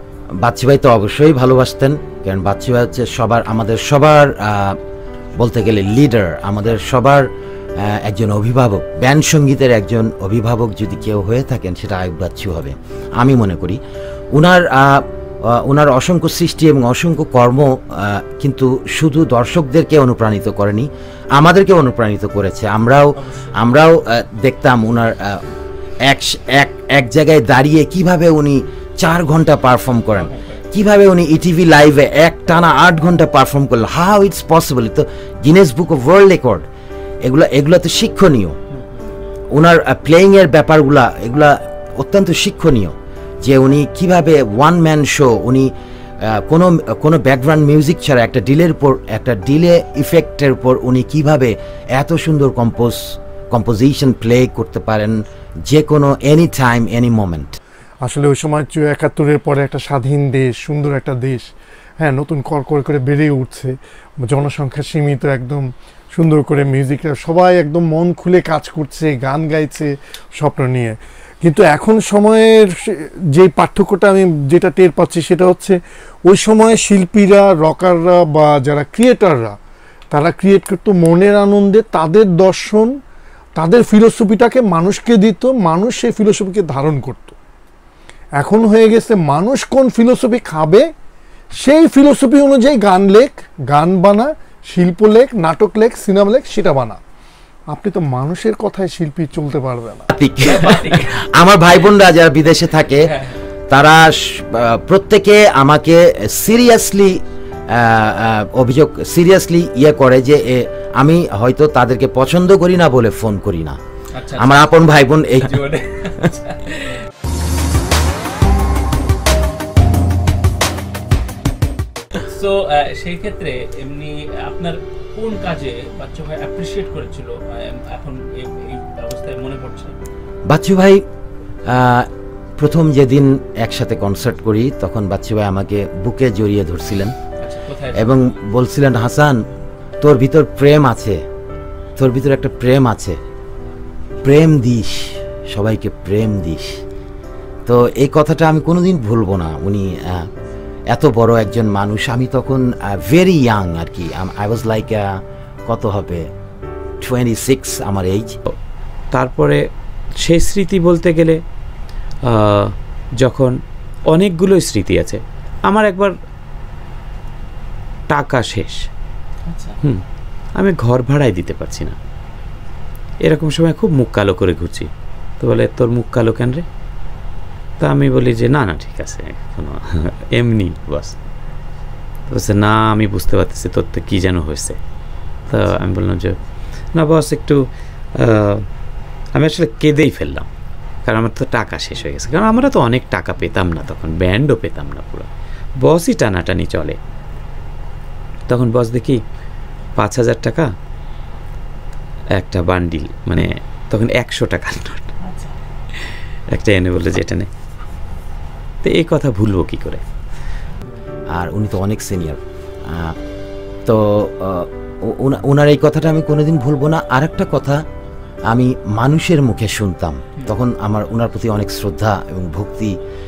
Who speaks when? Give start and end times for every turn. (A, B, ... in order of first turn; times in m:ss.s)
0:00.4-0:04.8 A
0:05.4-0:07.3 A
0:07.8-0:13.8 A
0:14.3-0:25.4 A
0:23.2-0:23.6 B
0:26.1-0:36.6 A
0:30.1-0:30.6 B
0:37.2-0:38.6 A
0:38.7-0:39.1 B
0:39.5-0:57.6 A
0:58.0-1:01.5 C
1:02.0-1:19.6 C
1:20.1-1:22.9 C
1:23.6-1:27.4 C
1:28.4-1:30.9 C
1:31.6-1:37.0 C
1:37.7-1:40.1 C
1:40.1-1:43.1 A
1:40.4-1:41.1 B
1:43.1-1:43.4 B
1:43.7-1:53.8 A
1:54.2-1:54.6 B
1:54.4-1:55.6 A
1:55.4-1:57.1 B
2:02.1-2:10.0 B
2:10.5-2:11.0 A
2:11.6-2:17.1 A
2:17.4-2:18.1 B
2:17.9-2:19.4 A
2:20.0-2:21.2 A
2:22.0-2:23.2 A
2:24.2-2:26.8 A
2:27.6-2:30.3 A
2:30.9-2:36.2 A
2:37.0-2:38.3 A
2:39.1-2:39.6 D
2:40.2-2:41.4 D
2:42.3-2:43.5 D
2:44.1-2:46.1 D
2:48.1-2:48.8 D
2:49.4-2:49.8 B
2:50.6-2:52.0 D
2:53.2-2:54.9 D
2:55.4-2:56.6 D
2:57.8-3:01.1 D
3:02.3-3:04.8 D
3:05.5-3:06.4 D
3:06.9-3:07.6 D
3:08.2-3:08.6 D
3:09.3-3:10.5 D
3:11.0-3:15.3 D
3:15.8-3:17.0 D
3:18.5-3:19.2 D
3:20.0-3:20.7 D
3:22.4-3:25.1 D
3:25.2-3:25.5 B
3:26.0-3:27.5 D
3:28.8-3:30.0 D
3:31.3-3:33.2 A
3:33.8-3:37.8 A
3:38.5-3:42.9 A